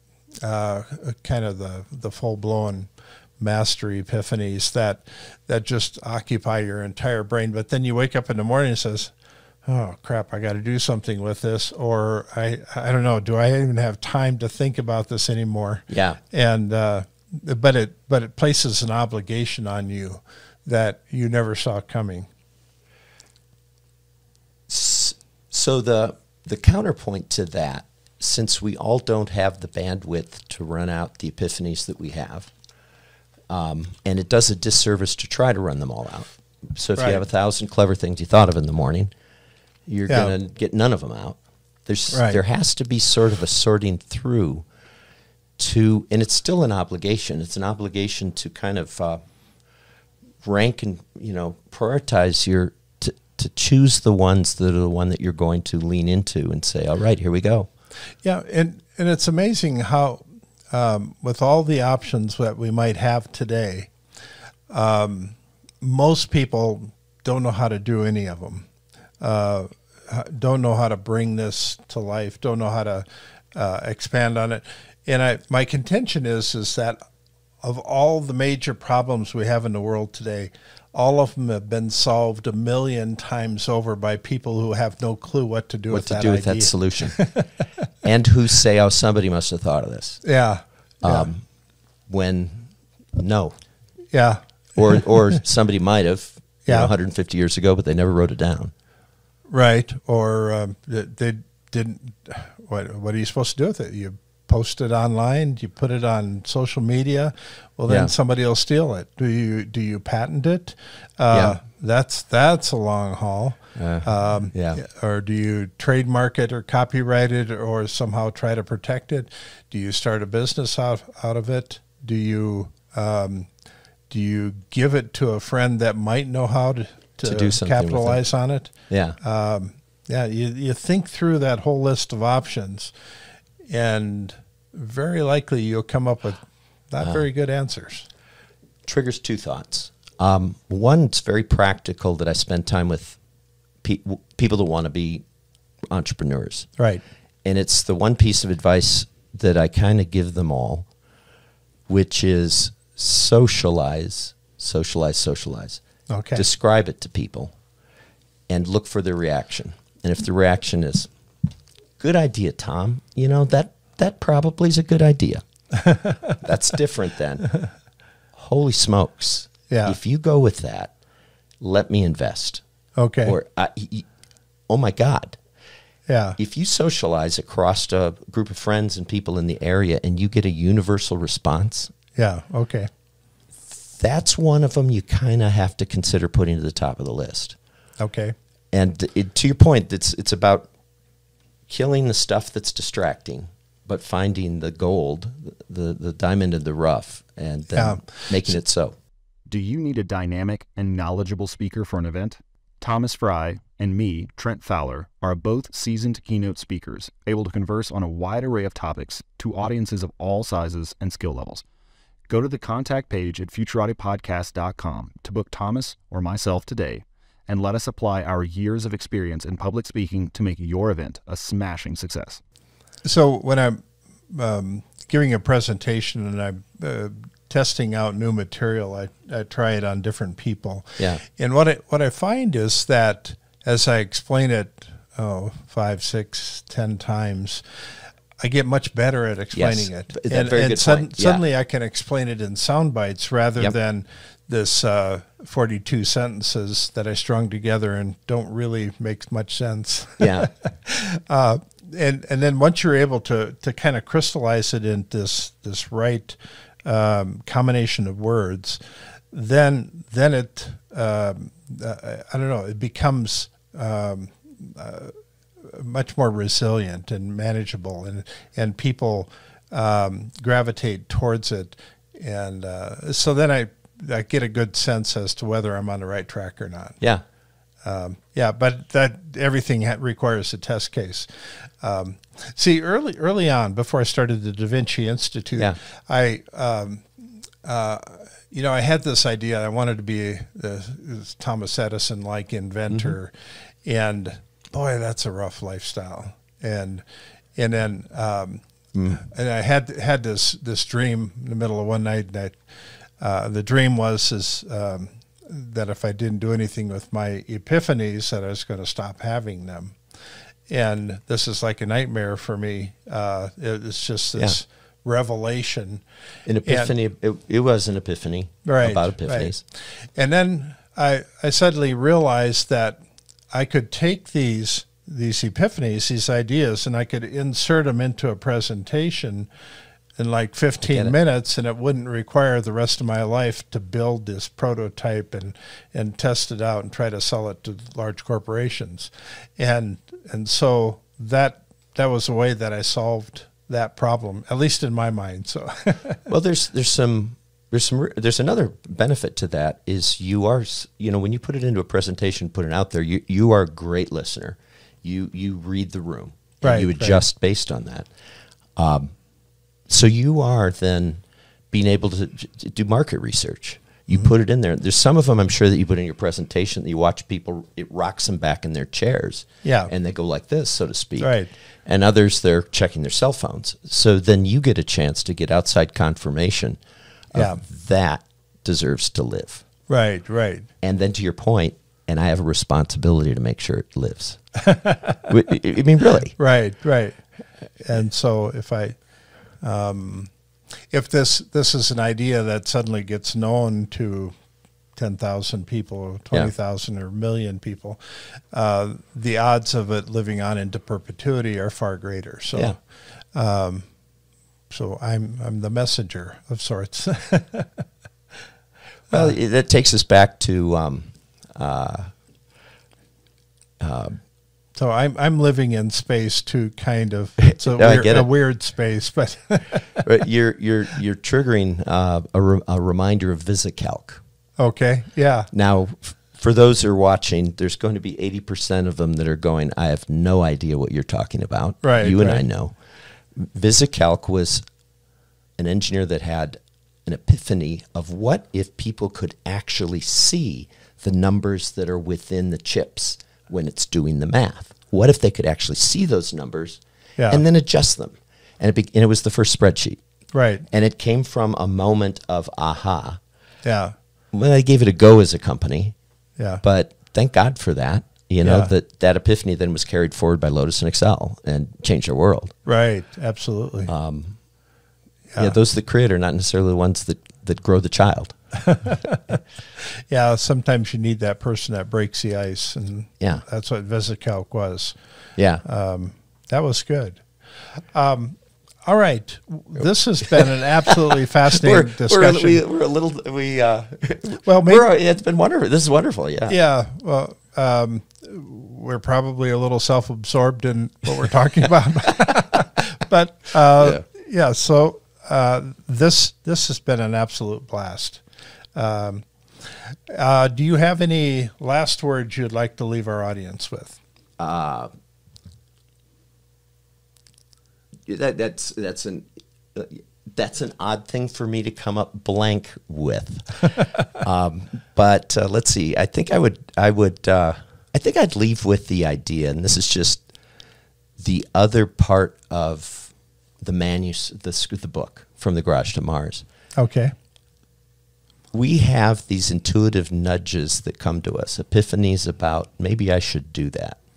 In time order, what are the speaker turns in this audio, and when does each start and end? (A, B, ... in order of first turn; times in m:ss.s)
0:00.4-0:09.1 A
0:09.6-0:22.3 A
0:15.9-0:16.2 B
0:24.7-0:32.5 B
0:33.5-0:39.1 B
0:37.0-0:37.2 A
0:39.9-0:44.6 B
0:40.1-0:40.3 A
0:42.1-0:42.4 A
0:45.6-0:49.2 B
0:50.4-0:57.7 B
0:58.2-1:03.9 A
1:04.7-1:08.7 A
1:09.2-1:17.0 A
1:17.6-1:27.4 A
1:25.9-1:27.2 B
1:28.0-1:30.2 B
1:30.2-1:31.3 A
1:31.0-1:31.5 B
1:32.1-1:33.6 B
1:34.1-1:35.4 A
1:34.8-1:38.7 B
1:36.7-1:36.9 A
1:39.5-2:03.5 A
1:47.9-1:48.1 B
1:51.3-1:51.6 B
1:53.8-1:54.8 B
2:04.1-2:12.9 A
2:07.2-2:08.2 B
2:08.9-2:09.2 B
2:13.7-2:18.1 A
2:18.9-2:23.2 B
2:23.8-2:25.2 B
2:25.9-2:26.7 B
2:26.8-2:27.0 A
2:27.4-2:30.9 B
2:31.9-2:35.8 B
2:36.1-2:36.4 A
2:36.3-2:37.6 B
2:38.5-2:41.1 B
2:42.0-2:45.4 B
2:45.8-2:46.4 A
2:46.4-2:47.5 B
2:48.4-2:50.9 B
2:49.7-2:50.0 A
2:51.6-2:52.6 B
2:53.0-2:53.4 A
2:53.2-2:54.1 B
2:54.7-2:55.4 B
2:56.1-2:56.4 A
2:56.4-3:01.9 B
3:02.2-3:02.9 A
3:03.7-3:07.6 B
3:08.0-3:08.4 A
3:08.7-3:10.7 B
3:11.7-3:19.0 B
3:17.7-3:18.6 A
3:19.5-3:31.6 C
3:32.3-3:42.4 C
3:43.0-3:57.9 A
3:58.4-4:37.0 A
3:59.5-4:01.4 B
4:10.2-4:10.5 B
4:37.8-4:57.0 A
4:57.6-5:02.6 A
4:58.9-4:59.2 B
5:03.2-5:10.0 A
5:10.7-5:16.0 A
5:16.5-5:19.6 B
5:16.7-5:16.9 A
5:18.6-5:29.5 A
5:30.2-5:46.2 A
5:30.8-5:31.2 B
5:46.3-5:58.1 B
5:56.6-5:57.2 A
5:58.8-5:59.1 B
5:59.9-6:16.8 B
6:09.6-6:09.9 A
6:11.2-6:11.5 A
6:17.3-6:19.6 B
6:17.3-6:17.6 A
6:19.9-6:20.7 A
6:20.8-6:24.5 B
6:24.6-6:25.2 A
6:25.2-6:26.4 B
6:26.4-6:27.2 A
6:27.8-6:29.0 A
6:29.6-6:30.3 A
6:30.9-6:34.4 A
6:35.0-6:42.8 A
6:43.3-6:43.9 A
6:44.7-6:47.8 A
6:49.1-6:52.1 B
6:53.8-6:54.2 B
6:54.8-7:00.1 A
6:57.4-6:58.3 B
7:00.0-7:04.2 B
7:04.6-7:05.5 A
7:05.5-7:12.8 B
7:11.8-7:12.4 A
7:13.4-7:14.6 B
7:15.6-7:30.0 B
7:27.2-7:27.4 A
7:30.3-7:30.6 A
7:30.7-7:33.2 B
7:33.6-7:34.0 A
7:34.3-7:36.0 B
7:36.4-7:36.6 A
7:36.6-7:42.5 B
7:38.4-7:38.7 A
7:42.7-7:43.9 A
7:43.9-7:44.4 B
7:45.4-7:48.4 B
7:48.7-7:55.0 A
7:55.4-7:55.6 B
7:55.6-8:02.6 A
7:59.8-8:06.6 B
8:04.4-8:04.9 A
8:06.5-8:18.2 A
8:13.7-8:14.0 B
8:18.7-8:24.0 A
8:24.4-8:24.9 B
8:28.1-8:40.2 B
8:41.2-8:46.4 B
8:46.8-8:47.1 A
8:48.5-8:54.0 B